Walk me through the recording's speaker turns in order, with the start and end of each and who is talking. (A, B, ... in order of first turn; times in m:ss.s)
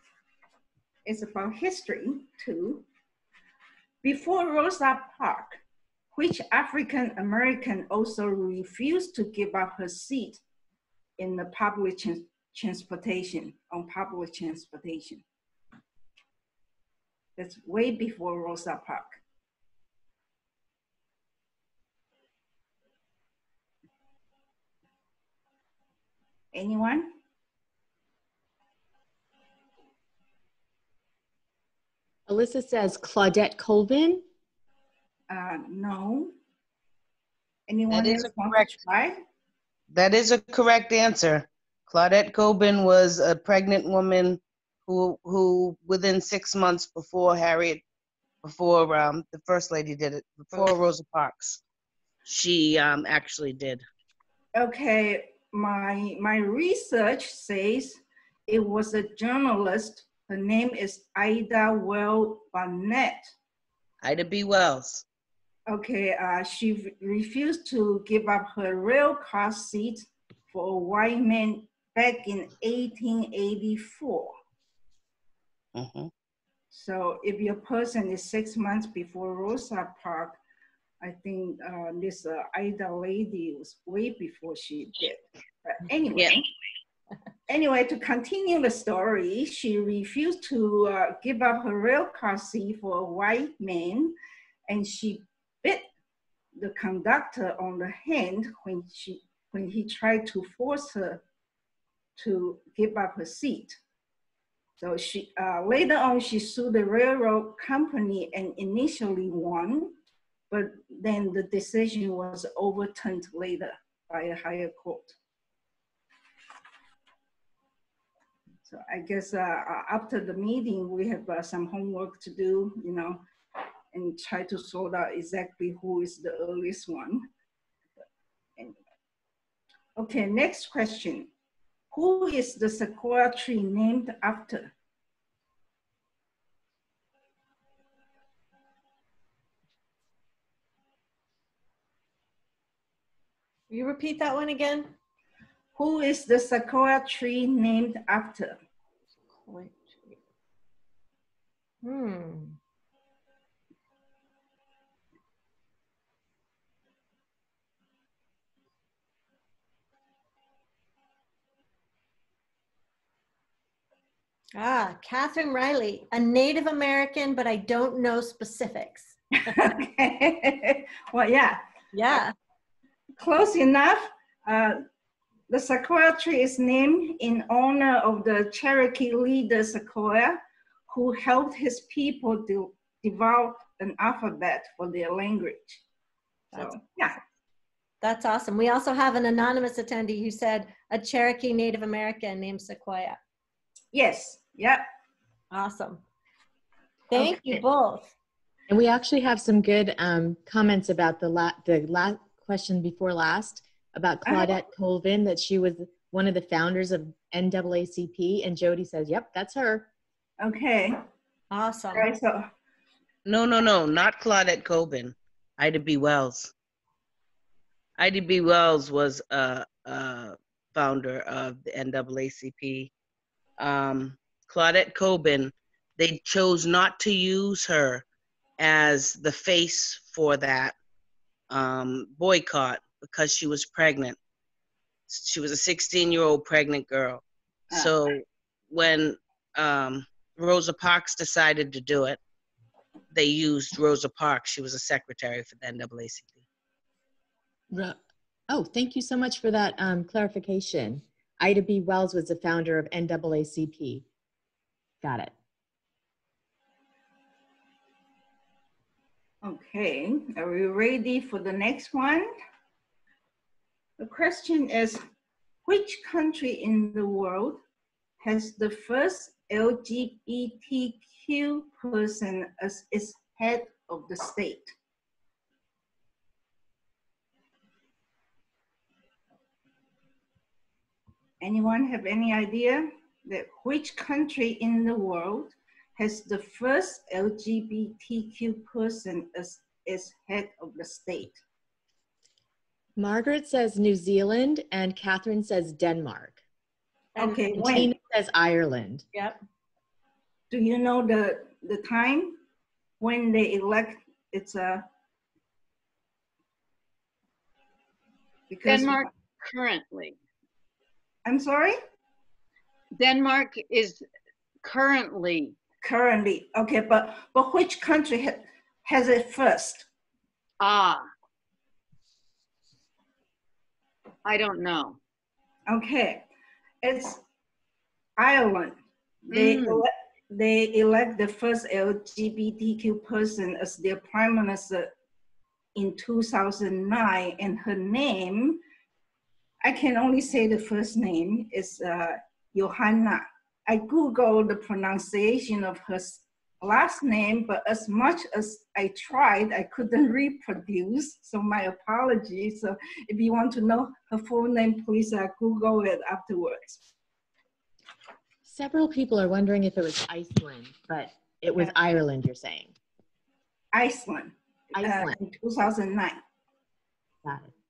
0:01.1-0:02.8 A
0:04.0-0:05.6 A
0:06.1-0:10.4 A
0:11.2-0:15.2 A
0:17.4-0:19.2 A
0:26.5-0:27.1 A
0:32.3-0:34.2 B
0:35.3-0:36.3 A
0:37.7-0:39.2 A
0:37.9-0:38.8 C
0:39.9-0:47.8 C
0:48.4-0:51.6 C
0:52.2-0:53.8 C
0:54.6-1:03.3 A
1:04.0-1:05.0 C
1:05.7-1:14.3 A
1:15.8-1:16.1 C
1:16.7-1:20.4 A
1:21.0-1:26.5 A
1:27.5-1:34.2 A
1:34.7-1:35.9 A
1:36.6-1:41.2 A
1:42.2-1:43.8 A
1:44.8-1:50.0 A
1:50.5-1:55.2 A
1:58.6-2:03.2 A
2:03.9-2:07.3 A
2:10.0-2:11.3 A
2:11.9-2:14.7 A
2:23.7-2:24.9 D
2:25.8-2:28.6 A
2:29.4-2:29.9 D
2:31.8-2:32.6 D
2:44.6-2:49.2 D
2:49.6-2:52.2 A
2:51.9-2:52.3 D
2:53.2-2:54.8 A
2:55.5-3:05.8 A
3:06.5-3:07.2 A
3:08.0-3:13.2 D
3:13.9-3:14.8 A
3:15.5-3:16.0 D
3:17.1-3:18.1 D
3:17.2-3:17.5 A
3:18.7-3:29.9 B
3:24.2-3:24.6 A
3:30.4-3:31.0 A
3:31.5-3:32.1 D
3:31.9-3:32.5 A
3:33.3-3:36.5 C
3:38.0-3:42.9 C
3:43.6-3:48.0 C
3:48.6-3:50.8 C
3:51.5-3:54.2 C
3:55.1-4:02.2 C
4:03.1-4:06.4 C
4:07.7-4:08.0 B
4:08.5-4:14.0 B
4:15.0-4:15.3 B
4:19.4-4:22.3 A
4:24.0-4:25.0 A
4:25.7-4:27.6 A
4:28.2-4:34.7 A
4:41.4-4:51.4 A
4:53.0-4:56.4 B
4:57.2-4:57.9 A
4:57.5-4:59.1 B
5:00.5-5:02.4 A
5:03.0-5:04.8 A
5:08.5-5:09.1 A
5:08.6-5:10.2 E
5:11.3-5:11.8 A
5:13.0-5:14.0 E
5:14.6-5:15.6 E
5:15.8-5:19.9 A
5:20.6-5:21.1 E
5:24.2-5:25.0 E
5:25.7-5:26.3 A
5:26.8-5:27.2 A
5:28.2-5:28.8 A
5:29.3-5:34.9 A
5:29.3-5:29.8 E
5:35.8-5:38.6 A
5:39.6-5:56.8 A
5:58.4-6:02.7 B
6:03.7-6:06.2 A
6:04.7-6:05.2 B
6:07.2-6:07.5 B